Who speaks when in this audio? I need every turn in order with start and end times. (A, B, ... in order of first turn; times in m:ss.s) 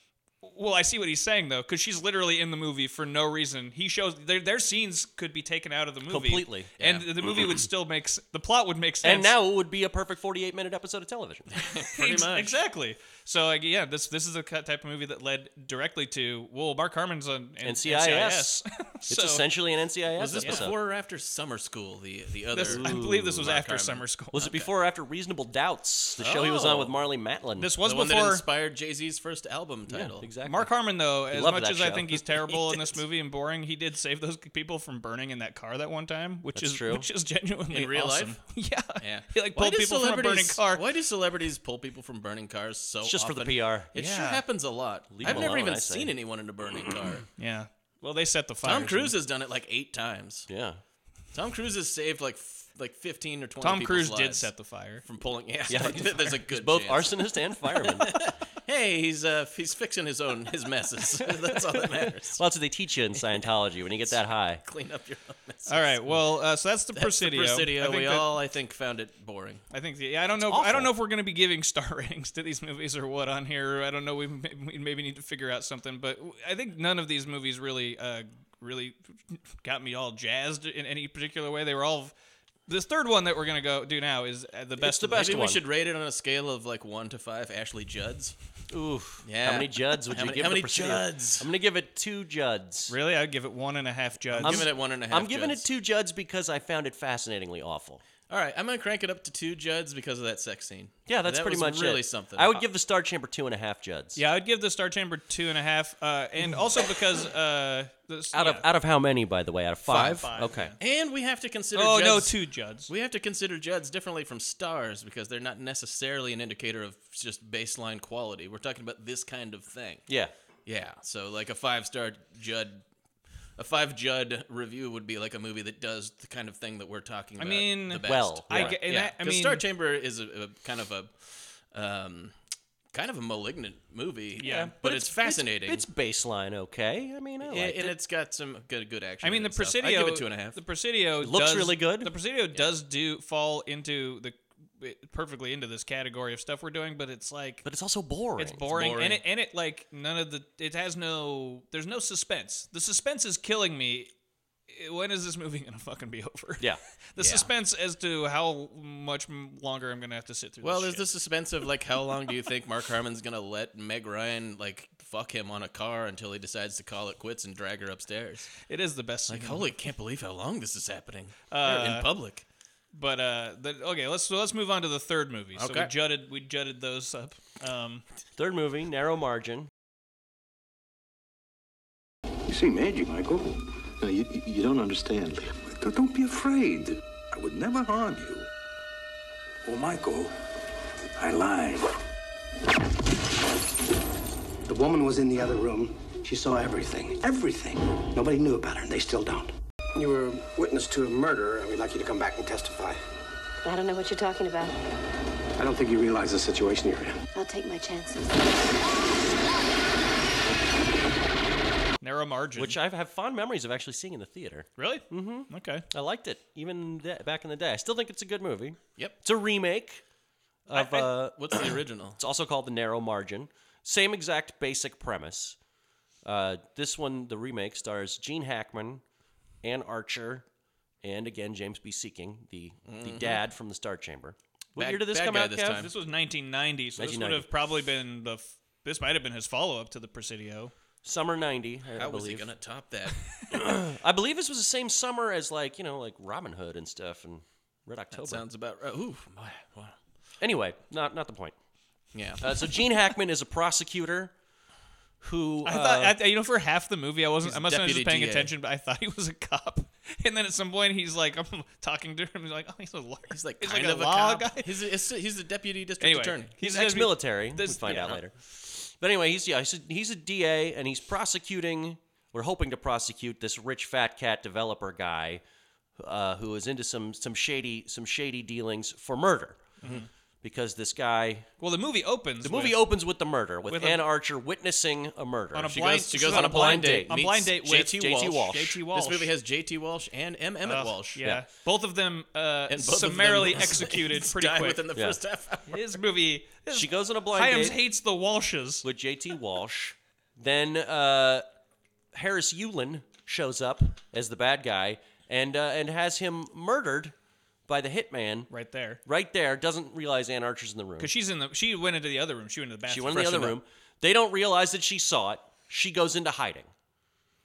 0:00.4-0:09.3 A
0:06.1-0:06.7 B
0:06.8-0:07.1 C
0:09.0-0:11.5 B
0:11.6-0:12.6 C
0:12.0-0:19.4 A
0:17.6-0:18.6 B
0:19.1-0:20.8 B
0:20.2-0:24.5 C
0:22.5-0:24.6 A
0:22.7-0:23.4 B
0:24.3-0:27.7 B
0:26.2-0:26.9 C
0:27.6-0:28.4 A
0:27.8-0:30.3 C
0:29.9-0:30.7 B
0:30.4-0:40.8 A
0:31.3-0:32.2 B
0:36.6-0:37.1 B
0:37.7-0:38.4 C
0:39.0-0:47.3 C
0:43.0-0:43.9 B
0:44.0-0:44.4 A
0:45.1-0:46.1 B
0:47.4-0:49.1 A
0:48.6-0:50.5 C
0:50.5-0:50.8 B
0:51.3-0:54.5 C
0:53.6-0:55.0 A
0:55.0-1:02.4 C
0:55.7-0:58.1 B
1:01.8-1:04.6 B
1:04.1-1:06.2 C
1:05.7-1:08.3 A
1:07.0-1:09.6 C
1:09.7-1:22.1 A
1:10.4-1:10.9 B
1:22.7-1:25.4 A
1:24.8-1:25.6 B
1:25.2-1:28.4 C
1:28.7-1:32.9 B
1:29.2-1:31.5 C
1:32.9-1:34.7 A
1:34.3-1:35.6 C
1:34.4-1:38.0 B
1:38.3-1:42.6 C
1:41.1-1:44.2 B
1:44.2-1:48.7 A
1:48.3-1:50.7 B
1:49.9-2:00.1 C
1:50.1-1:50.8 A
1:51.8-1:52.9 A
2:00.7-2:02.8 C
2:03.6-2:12.3 C
2:07.4-2:09.6 A
2:08.0-2:08.8 B
2:12.9-2:15.8 C
2:14.4-2:14.7 A
2:14.4-2:17.9 B
2:17.4-2:20.6 C
2:19.2-2:27.6 A
2:21.2-2:22.1 B
2:27.6-2:28.6 B
2:28.4-2:34.1 A
2:28.7-2:29.2 C
2:34.7-2:41.1 A
2:37.2-2:37.5 C
2:40.6-2:48.5 C
2:48.7-2:49.7 A
2:49.3-2:52.4 C
2:51.5-2:52.1 A
2:52.9-2:58.0 A
2:55.6-2:55.9 C
2:58.4-2:59.7 B
3:02.5-3:08.5 D
3:09.6-3:10.3 D
3:11.2-3:12.0 D
3:14.7-3:23.0 E
3:23.6-3:24.7 F
3:25.6-3:27.2 E
3:27.3-3:28.6 F
3:32.0-3:32.8 A
3:32.6-3:40.0 B
3:34.8-3:35.9 A
3:40.7-3:45.6 B
3:40.7-3:42.2 C
3:46.2-3:49.0 B
3:49.6-3:50.4 B
3:51.0-3:55.9 B
3:52.9-3:53.4 C
3:54.8-3:55.9 C
3:55.8-4:00.7 A
3:57.0-3:57.5 B
4:01.0-4:02.5 B
4:02.0-4:03.2 C
4:03.5-4:08.4 B
4:08.1-4:10.0 C
4:10.4-4:11.6 B
4:12.1-4:12.8 C
4:12.4-4:14.3 B
4:15.2-4:16.2 B
4:15.6-4:24.7 A
4:17.4-4:18.5 C
4:23.3-4:26.5 C
4:26.0-4:28.2 A
4:26.6-4:35.4 B
4:36.0-4:39.7 B
4:39.8-4:40.1 A
4:40.4-4:41.5 B
4:41.6-4:42.9 A
4:42.4-4:48.8 B
4:43.6-4:44.1 A
4:45.5-4:49.3 A
4:45.7-4:51.2 C
4:50.7-4:54.8 A
4:52.7-4:56.0 C
4:55.7-4:58.8 A
4:56.7-4:57.8 B
4:58.8-5:01.4 B
5:02.1-5:07.1 B
5:07.7-5:08.5 B
5:08.5-5:09.0 A
5:09.0-5:11.1 B
5:11.0-5:13.6 A
5:12.9-5:16.7 B